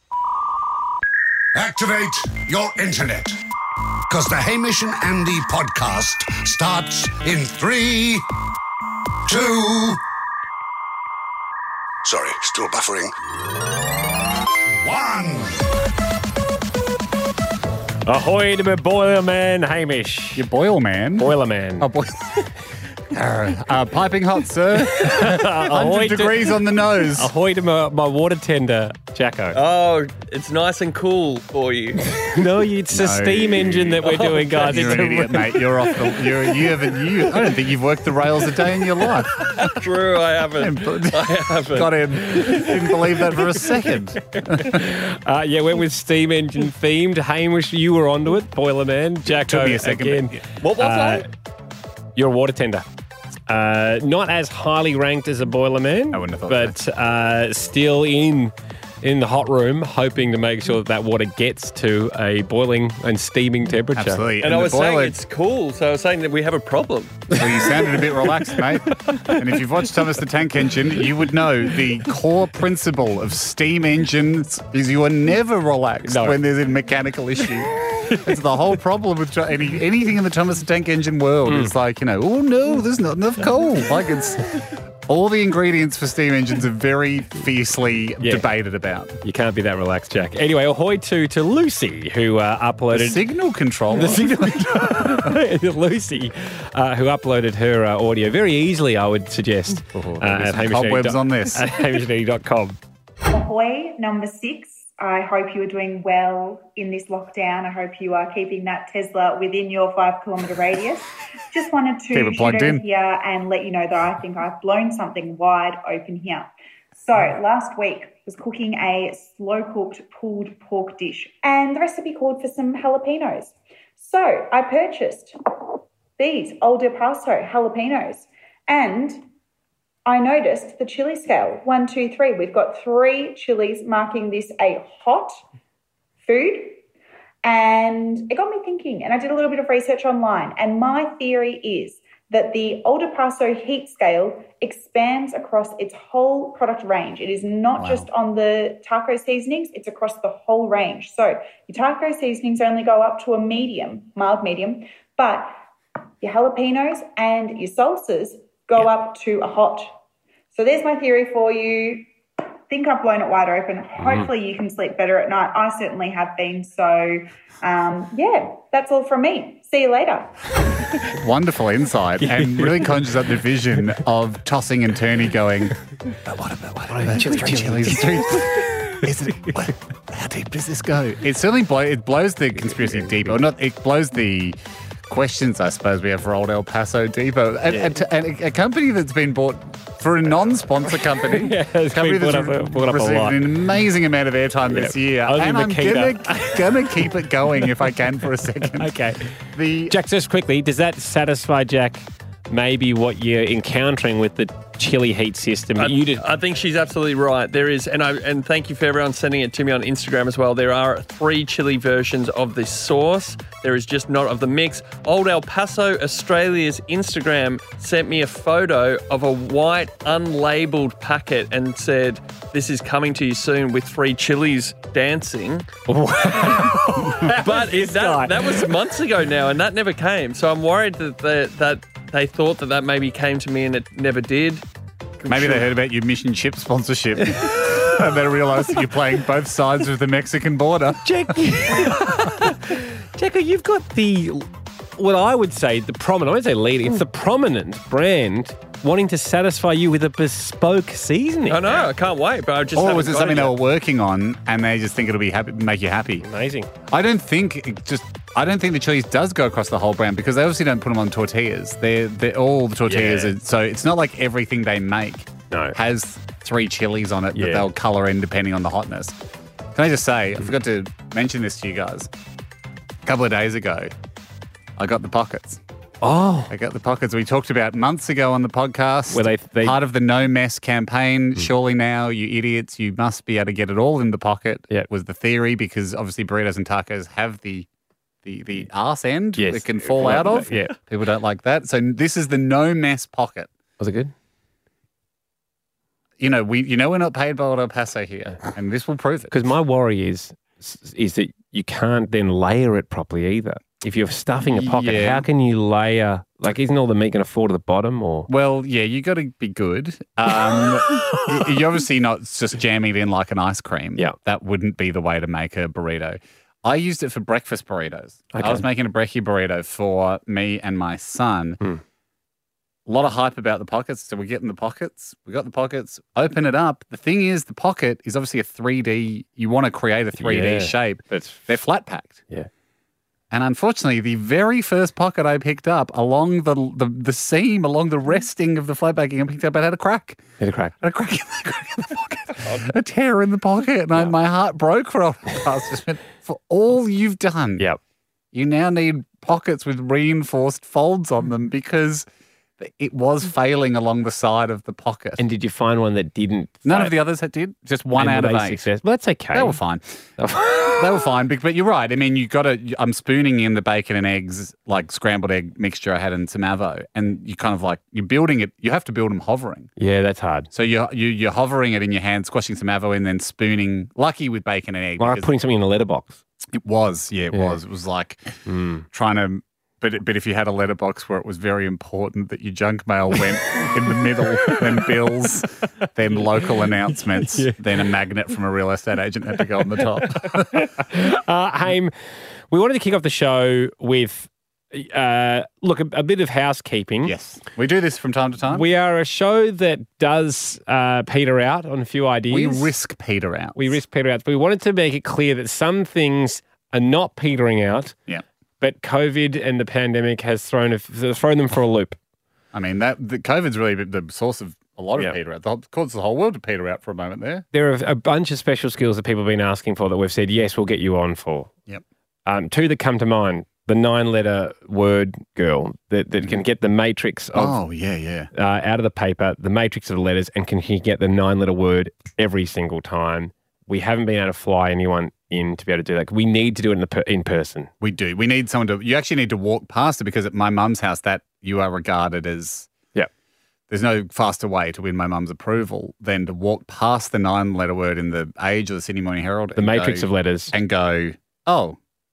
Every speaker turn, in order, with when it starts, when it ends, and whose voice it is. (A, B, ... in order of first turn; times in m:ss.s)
0:01.5-0:03.4 A
0:04.1-0:08.3 A
0:09.3-0:10.0 A
0:12.0-0:13.1 A
0:14.8-0:15.6 A
0:18.0-0:20.5 B
0:20.4-0:22.3 C
0:21.2-0:21.9 B
0:23.1-0:27.3 C
0:24.8-0:29.6 B
0:29.5-0:32.0 D
0:32.1-0:36.2 B
0:32.9-0:39.5 C
0:34.0-0:35.1 D
0:39.4-0:42.6 D
0:40.6-0:44.8 C
0:44.4-0:51.3 B
0:49.3-0:50.4 C
0:50.6-0:51.2 D
0:52.2-0:52.8 B
0:53.5-1:04.2 B
0:56.1-0:56.8 C
1:04.0-1:05.2 C
1:04.4-1:07.4 D
1:07.3-1:29.2 C
1:09.1-1:09.4 B
1:16.0-1:16.4 B
1:21.5-1:21.7 B
1:28.2-1:28.5 B
1:29.2-1:33.2 B
1:32.9-1:35.4 C
1:33.9-1:42.8 B
1:39.9-1:41.8 C
1:43.3-2:09.2 E
1:52.1-1:52.9 C
2:10.1-2:15.4 E
2:16.2-2:16.8 E
2:17.4-2:35.5 E
2:27.8-2:28.1 C
2:36.2-2:40.0 E
2:40.5-2:42.1 E
2:42.7-2:50.4 E
2:51.1-3:20.0 C
2:52.2-2:53.1 B
2:56.9-2:59.5 B
3:02.6-3:03.4 B
3:07.7-3:08.0 B
3:11.3-3:13.4 B
3:14.7-3:16.6 B
3:18.7-3:19.4 B
3:19.9-3:26.2 B
3:25.8-3:45.7 D
3:45.9-3:48.7 B
3:46.4-3:46.8 D
3:47.4-3:54.6 D
3:55.2-3:55.6 B
3:55.3-4:01.2 C
4:01.0-4:11.6 B
4:11.5-4:13.6 D
4:12.7-4:16.2 C
4:16.2-4:16.7 B
4:16.9-4:29.2 C
4:22.9-4:23.4 B
4:25.5-4:25.8 B
4:27.4-4:27.7 B
4:29.8-4:32.1 C
4:33.0-4:33.9 C
4:34.8-4:35.6 C
4:36.0-4:36.5 B
4:36.5-4:47.7 C
4:39.1-4:39.8 B
4:48.2-4:53.5 C
4:49.4-4:50.7 B
4:53.8-4:54.1 B
4:56.2-4:59.4 C
4:59.3-5:08.3 B
5:04.5-5:05.3 C
5:08.3-5:21.6 C
5:18.3-5:18.6 B
5:22.9-5:32.2 C
5:30.2-5:31.5 B
5:33.3-5:40.2 C
5:40.4-5:40.7 B
5:40.8-5:47.7 C
5:48.3-5:52.1 C
5:52.6-5:55.2 C
5:55.2-5:57.0 B
5:56.6-5:58.6 C
5:58.0-5:59.6 B
5:59.3-6:09.7 C
6:00.2-6:00.7 B
6:09.8-6:10.5 B
6:10.5-6:15.3 C
6:15.0-6:16.2 B
6:16.5-6:18.3 C
6:17.3-6:17.6 B
6:18.5-6:18.9 B
6:18.9-6:30.7 C
6:27.3-6:27.6 B
6:30.5-6:31.9 B
6:32.5-6:37.1 B
6:37.0-6:38.6 C
6:38.5-6:42.7 B
6:42.3-6:43.8 C
6:43.6-6:48.0 B
6:48.6-6:52.0 B
6:52.5-6:57.4 C
6:57.5-7:01.5 B
7:02.3-7:07.6 B
7:07.3-7:08.3 C
7:08.3-7:17.7 B
7:17.8-7:22.7 C
7:23.7-7:31.8 C
7:29.6-7:30.5 B